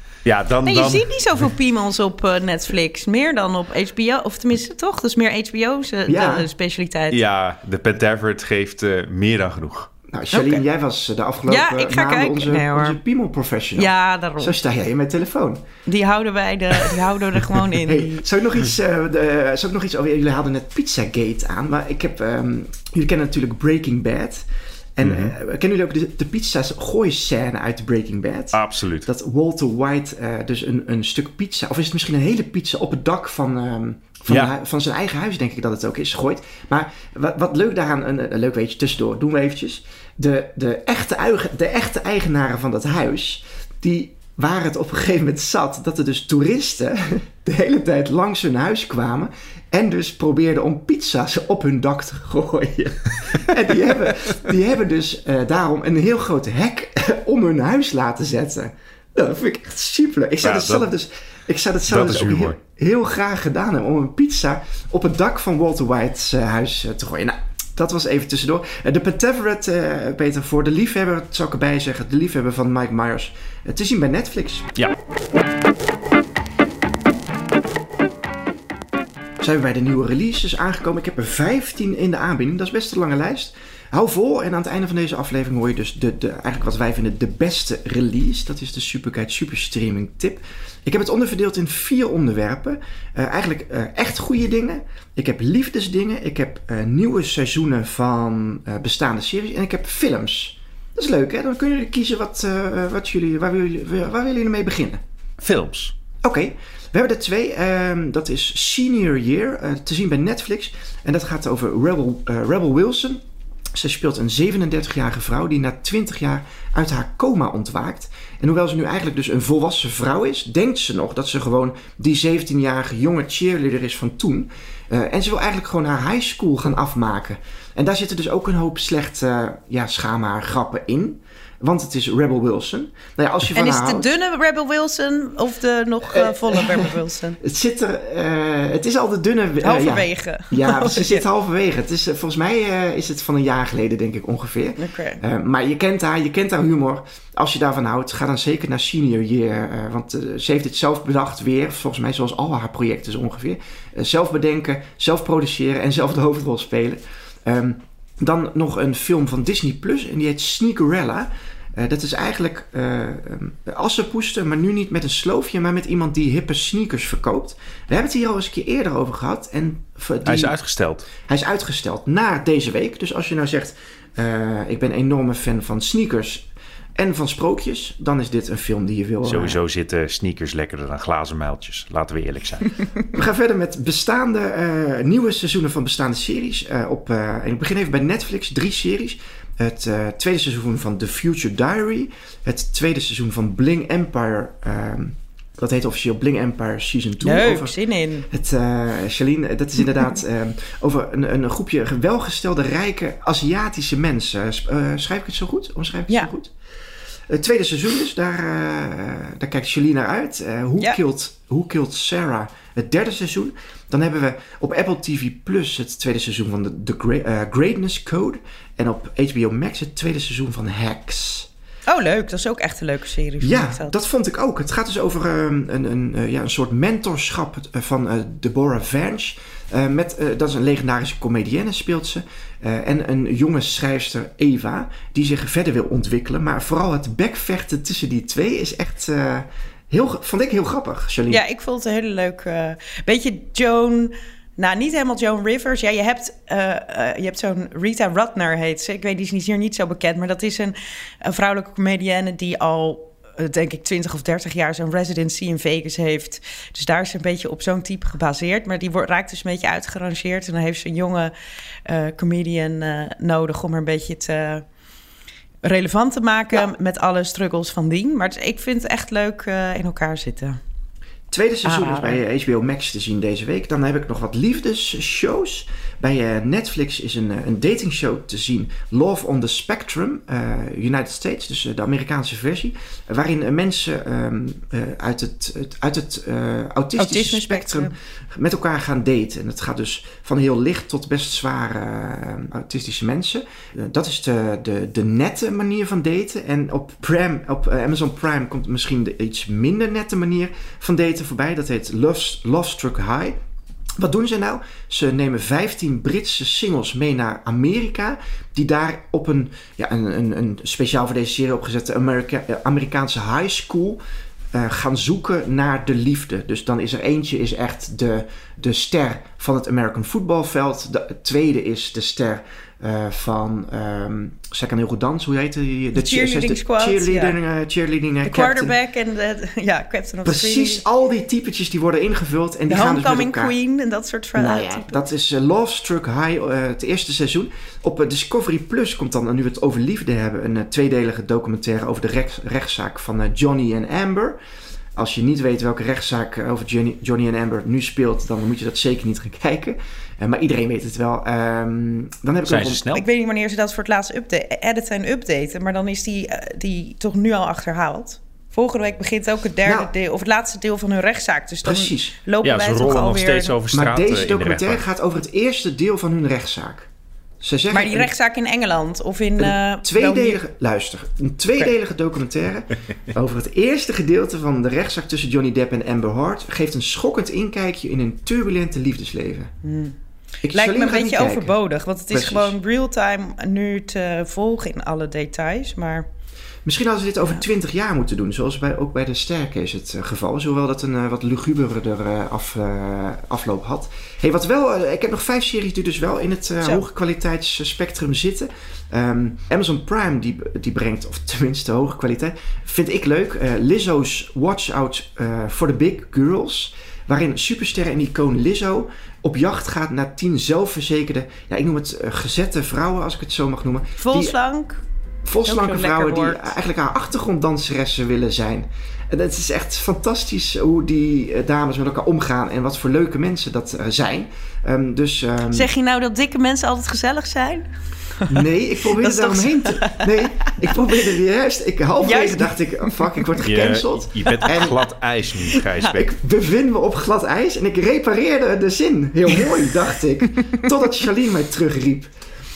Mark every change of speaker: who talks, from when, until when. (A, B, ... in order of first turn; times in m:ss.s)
0:00.2-0:01.5 A
0:00.7-0:07.2 B
0:06.1-0:06.5 C
0:07.1-0:09.9 A
0:10.1-0:15.6 C
0:10.3-0:10.6 B
0:11.5-0:13.0 B
0:13.8-0:14.6 B
0:15.9-0:18.2 B
0:17.7-1:14.7 C
0:25.0-0:25.4 A
0:28.5-0:29.1 A
1:00.4-1:00.9 A
1:01.9-1:02.6 A
1:19.4-1:45.0 C
1:45.4-1:46.0 A
1:46.2-1:53.2 C
1:53.8-2:14.1 C
2:13.6-2:17.4 B
2:16.0-2:50.5 C
2:19.6-2:21.2 B
2:24.8-2:25.2 B
2:50.2-2:51.1 A
2:51.2-2:59.6 C
2:59.2-3:02.8 A
3:03.1-3:17.8 C
3:17.2-3:18.3 B
3:18.3-3:26.5 C
3:27.3-3:41.5 C
3:41.9-3:44.0 B
3:43.4-4:01.4 C
4:01.3-4:21.3 B
4:21.9-4:24.6 B
4:25.6-4:30.6 B
4:31.3-5:03.4 C
4:31.6-4:32.2 B
4:47.0-4:47.9 B
5:04.0-5:28.8 C
5:25.9-5:27.4 B
5:28.2-5:30.8 B
5:30.2-5:33.6 C
5:32.7-5:35.0 B
5:34.4-5:44.4 C
5:45.0-5:52.8 C
5:52.4-5:53.0 A
5:52.9-6:03.6 B
5:59.6-5:59.9 C
6:01.6-6:02.2 C
6:02.4-6:04.8 A
6:03.7-6:06.9 C
6:07.4-6:08.1 C
6:07.7-6:10.4 B
6:09.4-6:19.5 C
6:19.6-6:20.0 B
6:20.4-6:21.6 C
6:20.5-6:26.1 B
6:22.1-6:22.6 C
6:26.6-6:54.4 C
6:54.0-6:54.8 B
6:55.2-7:05.7 C
6:55.4-6:56.5 B
7:05.5-7:10.7 B
7:08.3-7:14.8 C
7:12.0-7:13.0 B
7:13.4-7:16.1 A
7:14.3-7:14.7 B
7:15.5-7:15.9 B
7:15.9-7:22.1 C